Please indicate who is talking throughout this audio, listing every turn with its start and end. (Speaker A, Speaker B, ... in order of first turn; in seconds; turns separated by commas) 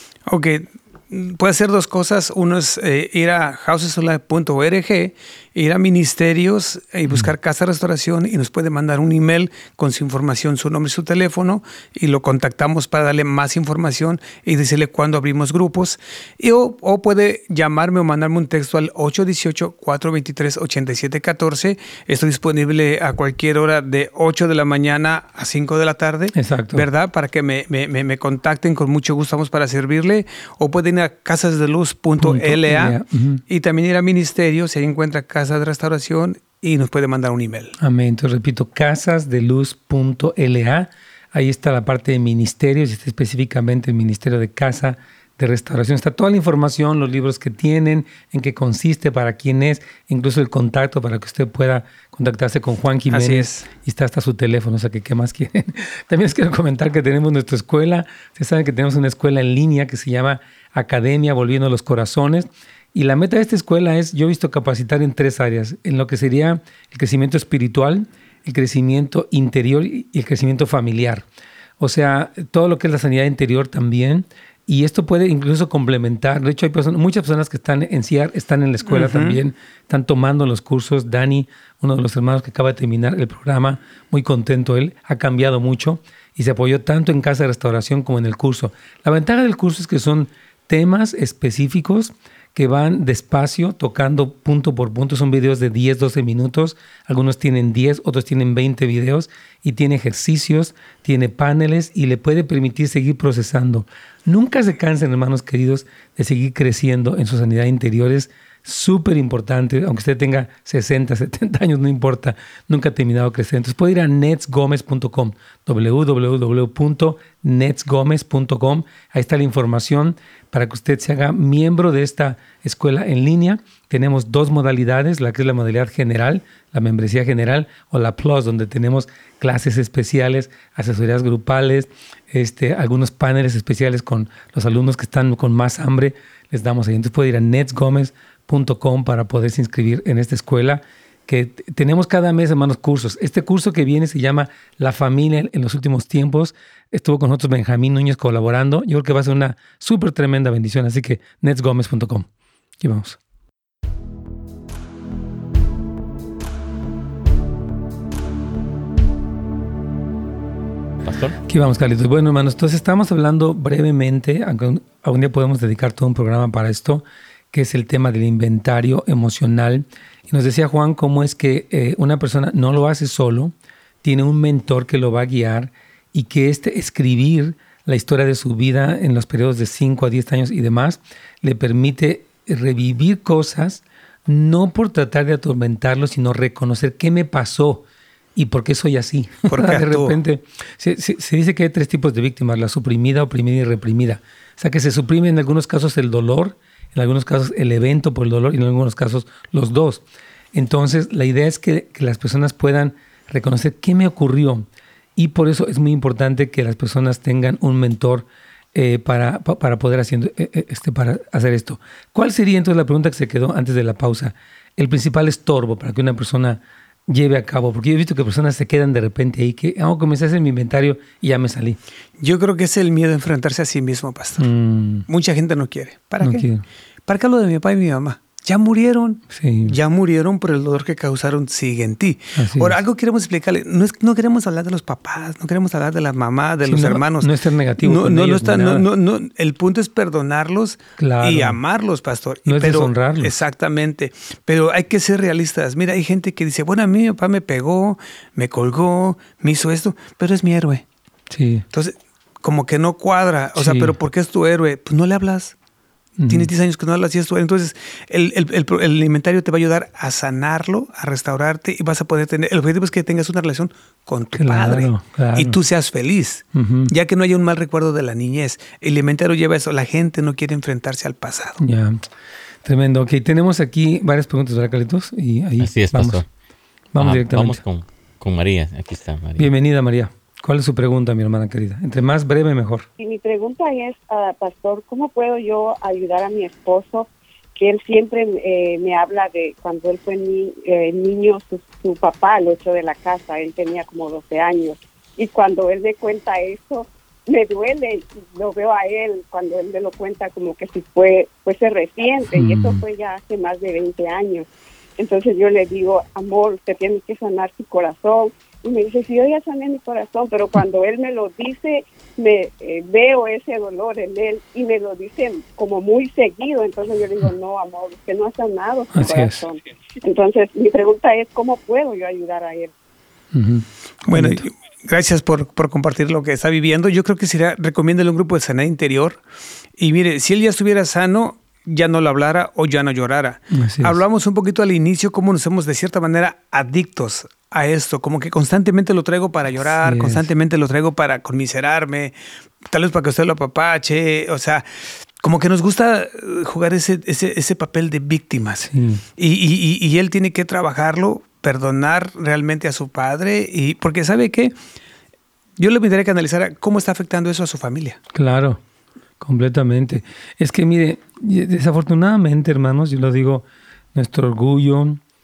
Speaker A: 0.3-33.0, Speaker B: 26.4-26.9, Speaker B: 32.2-33.4, Speaker A: 33.5-37.8, Speaker B: 37.8-71.3, Speaker A: 53.1-53.7, Speaker B: 71.8-152.3, Speaker A: 78.9-79.4, Speaker B: 152.8-153.2, Speaker C: 161.0-161.4, Speaker B: 161.4-187.8, Speaker B: 188.4-221.8, Speaker A: 189.5-190.2, Speaker A: 222.2-224.5, Speaker B: 224.4-225.1, Speaker A: 225.1-226.5, Speaker B: 226.2-226.6, Speaker A: 227.1-250.8, Speaker B: 229.3-229.8, Speaker B: 232.4-232.8, Speaker B: 236.7-238.9, Speaker B: 241.0-241.6, Speaker B: 242.5-243.4, Speaker B: 251.3-251.7, Speaker A: 251.7-255.6, Speaker B: 253.6-254.0, Speaker B: 256.2-256.5, Speaker A: 256.3-271.6, Speaker B: 264.4-265.6, Speaker B: 266.5-266.9, Speaker B: 271.6-272.0, Speaker B: 272.6-276.2, Speaker C: 275.6-276.3, Speaker B: 276.9-277.6, Speaker C: 277.0-279.5, Speaker B: 279.4-282.9, Speaker D: 283.0-322.7, Speaker B: 302.3-302.8, Speaker B: 318.9-319.4, Speaker B: 323.3-324.5, Speaker A: 324.1-329.2, Speaker A: 329.8-344.6, Speaker B: 333.5-334.0, Speaker B: 339.8-340.3, Speaker A: 345.2-354.6, Speaker B: 348.6-349.0, Speaker A: 355.6-358.0, Speaker B: 358.1-358.6, Speaker B: 359.2-365.0